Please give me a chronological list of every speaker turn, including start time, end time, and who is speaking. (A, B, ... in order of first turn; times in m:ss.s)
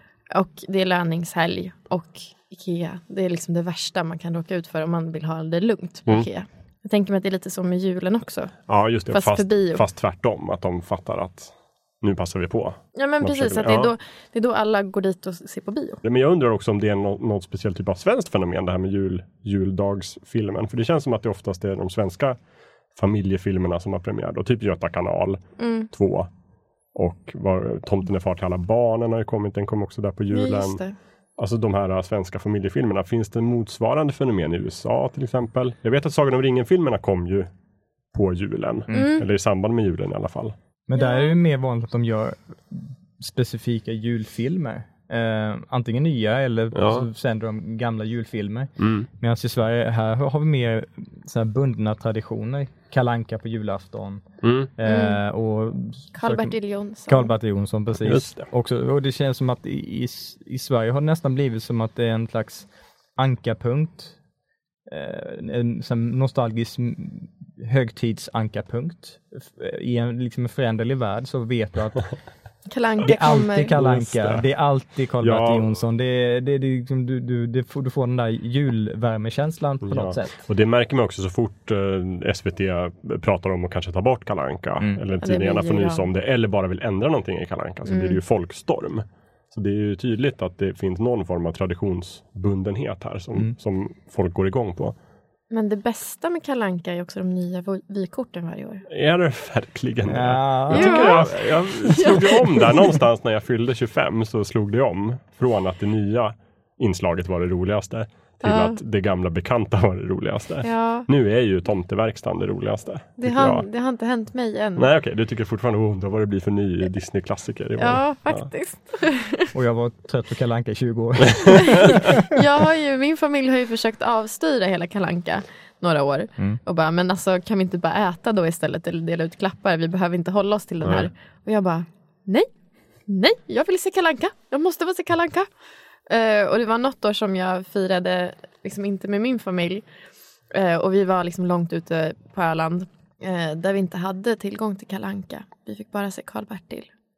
0:00.3-0:09.8 A
0:08.7-0:13.9 B
0:13.0-0:16.0 A
0:16.0-0:22.4 B
0:22.9-0:26.3 B
0:25.6-0:25.9 A
0:26.9-0:30.8 B
0:30.3-0:31.0 A
0:31.4-0:37.5 B
0:38.1-0:40.5 B
0:38.9-0:39.1 C
0:38.9-0:39.3 A
0:40.9-0:54.3 C
0:41.0-0:41.4 A
0:46.7-0:47.1 B
0:48.8-0:49.1 B
0:54.4-0:54.7 B
0:54.8-0:56.5 C
0:54.8-0:55.2 A
0:56.2-0:57.3 A
0:57.1-1:04.2 C
0:58.0-0:58.5 B
1:04.9-1:12.2 C
1:12.7-1:13.8 A
1:13.0-1:20.4 C
1:13.7-1:14.5 B
1:15.2-1:15.7 B
1:19.8-1:35.0 B
1:25.2-1:26.1 A
1:27.9-1:28.2 A
1:35.5-1:38.8 A
1:38.9-1:53.6 B
1:40.1-1:41.3 C
1:40.7-1:42.9 A
1:48.4-1:48.8 A
1:50.6-1:51.1 A
1:53.2-1:54.9 A
1:54.8-1:58.5 B
1:57.8-1:59.5 A
1:59.5-2:02.1 C
2:01.7-2:12.5 A
2:10.8-2:11.1 B
2:13.1-2:15.5 A
2:16.1-2:19.9 A
2:20.5-2:26.9 A